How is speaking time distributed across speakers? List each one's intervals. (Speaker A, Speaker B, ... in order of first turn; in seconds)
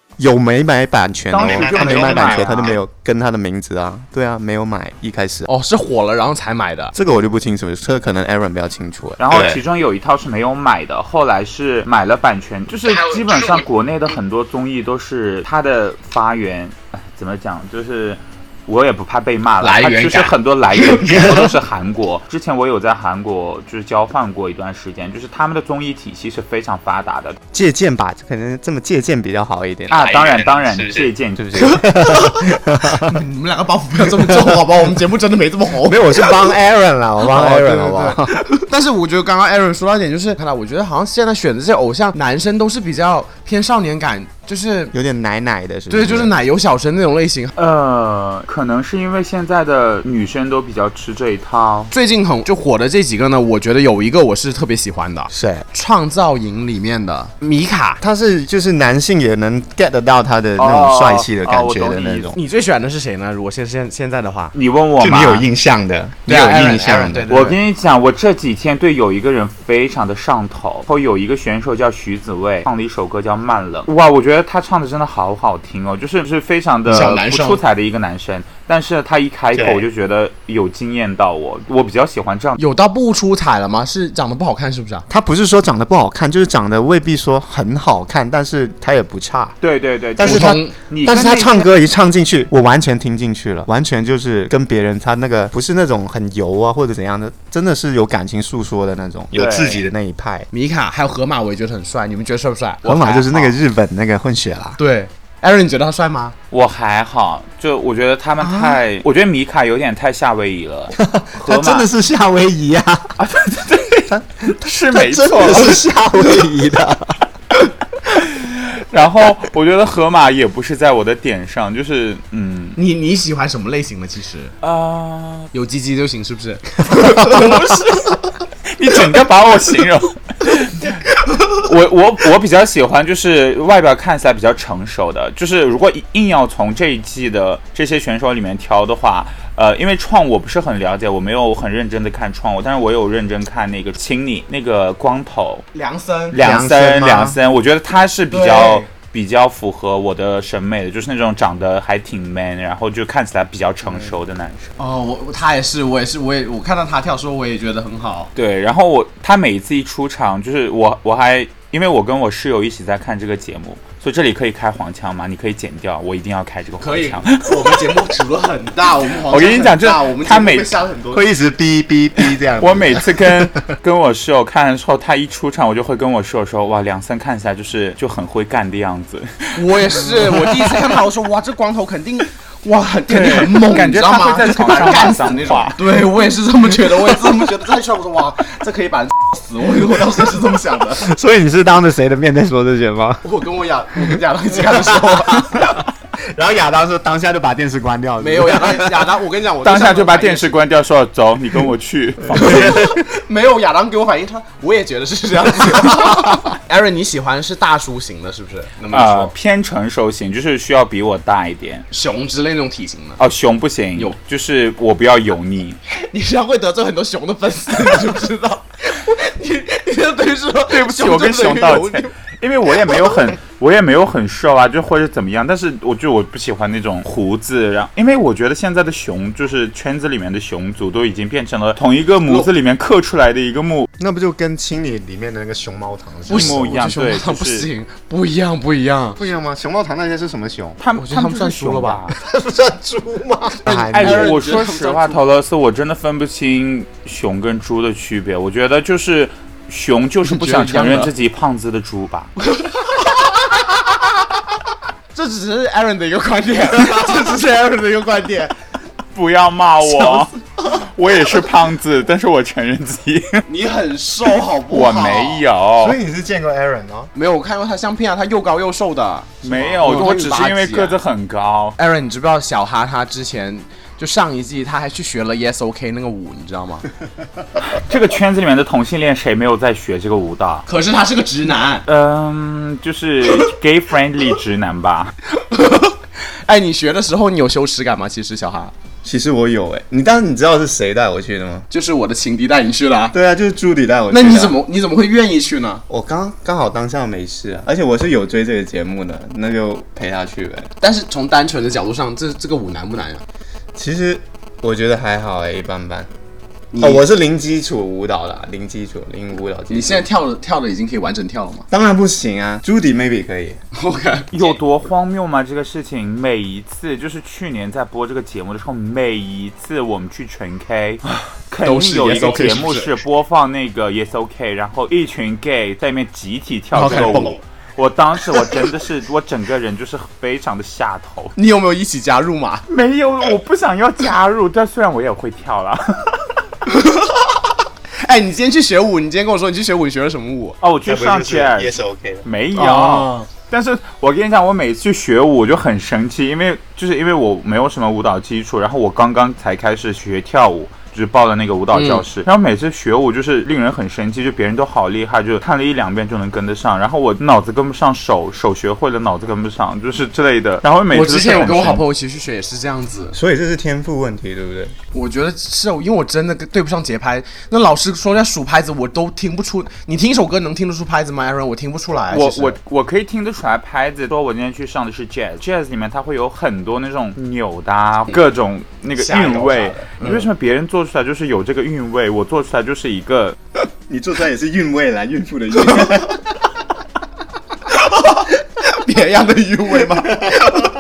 Speaker A: 0.2-5.5, 6.9-9.6, 27.5-33.2, 35.8-38.4, 44.9-46.3, 55.3-55.7, 58.0-62.4, 65.0-67.3, 79.5-79.8, 85.1-89.6, 90.2-100.5, 102.8-104.8, 108.4-108.8, 111.0-113.1, 114.1-117.2, 146.4-147.4, 171.1-173.7, 191.0-193.2, 194.7-199.1, 234.0-236.8, 239.2-240.8, 242.1-244.3, 265.8-267.1, 289.0-291.7, 293.1-294.6, 295.9-300.7, 303.8-306.1, 306.8-310.1, 311.7-313.6, 326.9-327.3, 340.9-342.3, 363.1-364.8, 383.9-386.4, 390.2-390.5
Speaker B: 1.3-2.8, 9.2-27.4, 29.9-31.8, 47.6-51.9, 60.6-62.4, 64.5-65.5, 67.3-82.6, 89.6-91.7, 99.3-99.8, 106.5-111.9, 113.2-115.8, 118.1-122.8, 124.6-125.5, 127.2-128.2, 128.8-145.7, 146.3-154.7, 158.3-167.9, 169.3-170.8, 172.6-180.9, 183.1-185.8, 199.6-202.8, 208.9-211.9, 213.2-215.8, 220.7-233.9, 236.3-237.7, 240.8-242.2, 243.9-252.3, 259.1-263.4, 264.7-266.0, 269.4-271.8, 277.7-280.6, 281.9-285.1, 314.3-331.3, 332.7-336.2, 340.6-361.8, 372.1-383.4
Speaker C: 1.4-2.5, 5.5-6.9, 19.6-21.5, 31.8-36.5, 37.2-44.9, 45.9-47.5, 51.9-58.0, 62.4-64.5, 66.3-67.6, 76.9-77.6, 82.6-85.0, 90.2-90.8, 100.5-103.6, 104.8-106.4, 122.8-124.5, 125.5-127.8, 145.7-146.4, 148.3-148.9, 154.8-158.3, 166.8-171.2, 179.6-191.1, 193.2-195.6, 198.2-200.6, 202.4-209.3, 211.9-213.2, 216.1-222.1, 236.3-239.2, 241.0-242.1, 243.6-245.2, 250.2-251.1, 252.5-253.6, 255.1-258.6, 259.9-260.3, 263.5-265.4, 267.1-271.0, 271.8-276.9, 280.7-281.9, 285.4-288.7, 291.7-293.1, 294.1-295.8, 300.8-303.2, 306.7-307.0, 309.7-311.7, 313.7-314.3, 321.6-322.9, 326.8-327.4, 331.4-332.6, 336.7-337.2, 338.0-340.6, 342.6-343.3, 351.7-352.1, 360.9-363.2, 364.9-372.6, 379.0-380.3, 387.8-390.6